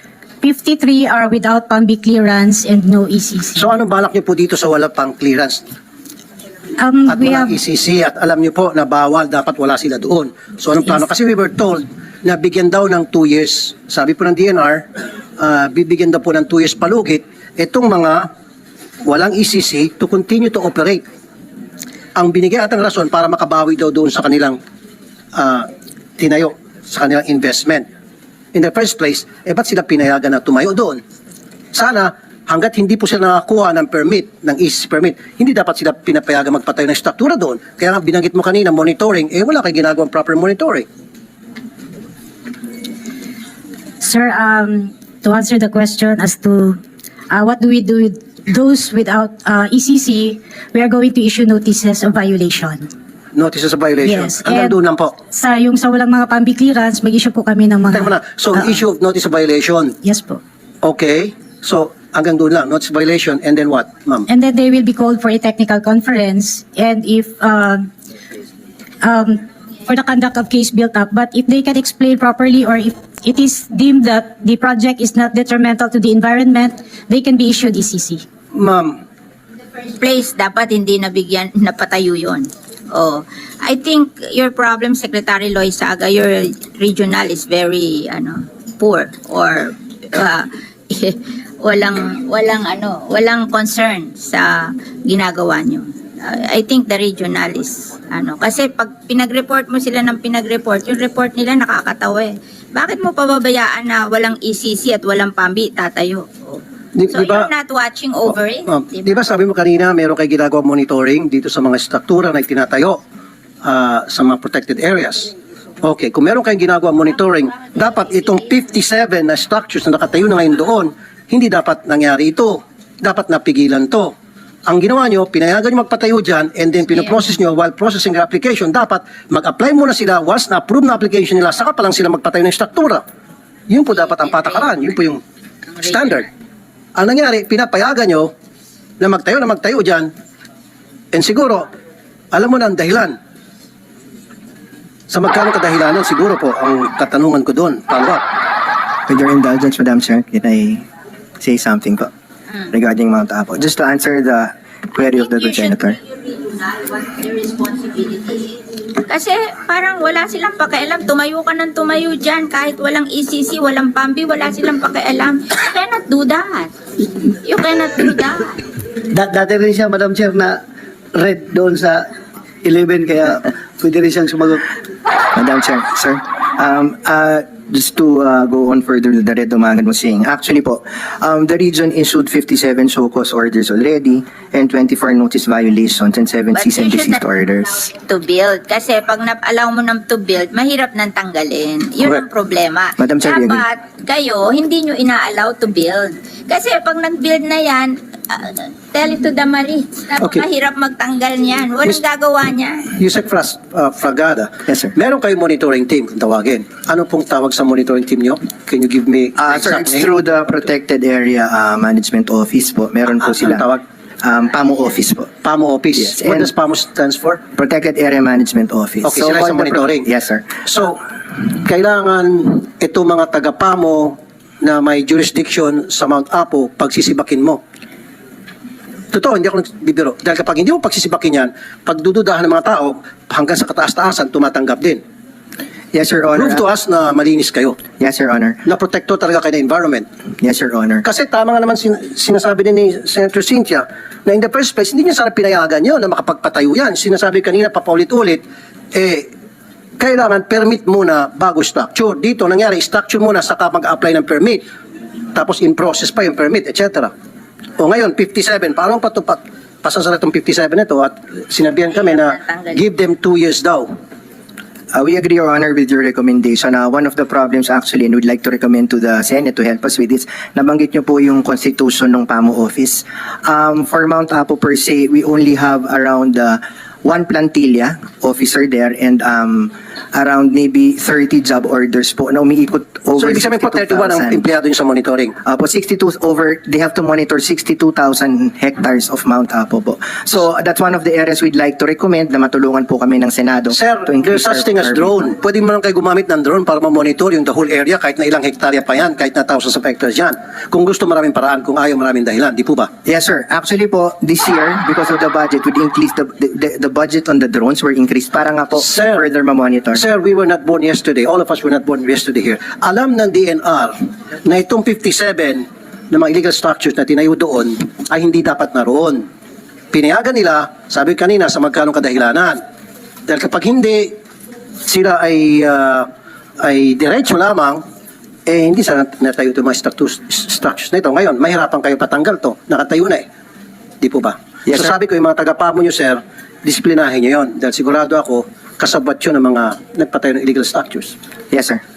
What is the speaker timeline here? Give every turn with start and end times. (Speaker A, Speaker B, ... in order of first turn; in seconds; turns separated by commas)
Speaker A: 0.4-3.7, Speaker B: 3.6-5.6, Speaker A: 6.8-7.6, Speaker B: 7.1-14.8, Speaker B: 15.4-18.3, Speaker B: 19.1-21.0, Speaker B: 22.2-24.6, Speaker B: 25.3-27.9, Speaker B: 28.5-31.0, Speaker B: 31.7-40.9, Speaker A: 44.0-46.8, Speaker A: 47.3-52.9, Speaker B: 53.3-55.1, Speaker A: 54.0-54.8, Speaker A: 55.3-58.8, Speaker B: 57.9-60.0, Speaker A: 60.0-60.4, Speaker B: 60.8-64.3, Speaker A: 64.3-67.9, Speaker A: 69.0-78.2, Speaker B: 78.5-79.0, Speaker C: 80.0-109.2, Speaker B: 107.0-107.5, Speaker B: 108.2-113.0, Speaker B: 113.6-124.1, Speaker B: 124.7-133.0, Speaker B: 133.7-135.2, Speaker B: 135.8-136.3, Speaker B: 136.9-138.3, Speaker B: 139.0-140.1, Speaker B: 141.1-141.7, Speaker B: 142.3-143.2, Speaker B: 145.1-148.2, Speaker D: 149.1-150.8, Speaker D: 151.4-152.1, Speaker D: 152.7-156.0, Speaker C: 155.0-166.7, Speaker C: 167.4-168.6, Speaker E: 169.1-170.6, Speaker E: 171.1-172.1, Speaker E: 172.6-174.6, Speaker D: 175.3-187.9, Speaker C: 186.5-187.2, Speaker C: 187.8-203.0, Speaker D: 193.0-193.7, Speaker B: 200.2-200.4, Speaker B: 202.9-210.1, Speaker D: 209.4-213.7, Speaker B: 213.1-213.8, Speaker D: 214.2-215.3, Speaker B: 215.4-217.4, Speaker D: 215.9-216.5, Speaker D: 217.5-220.5, Speaker B: 219.0-220.1, Speaker B: 220.6-221.0, Speaker B: 221.6-227.6, Speaker B: 229.1-235.0, Speaker D: 235.9-236.7, Speaker B: 236.3-237.8, Speaker D: 238.0-238.6, Speaker B: 238.6-240.1, Speaker D: 240.4-241.0, Speaker B: 241.0-249.3, Speaker B: 250.0-254.6, Speaker B: 255.3-257.1, Speaker B: 257.8-263.9, Speaker C: 261.9-262.8, Speaker D: 264.9-284.5, Speaker B: 283.2-285.4, Speaker D: 285.4-295.2, Speaker B: 293.7-302.9, Speaker D: 303.1-310.0, Speaker B: 308.8-309.2, Speaker B: 309.9-319.2, Speaker B: 319.9-322.6, Speaker B: 323.3-324.1, Speaker B: 324.9-327.8, Speaker B: 328.5-333.3, Speaker B: 334.0-341.1, Speaker D: 334.7-334.9, Speaker D: 341.5-341.8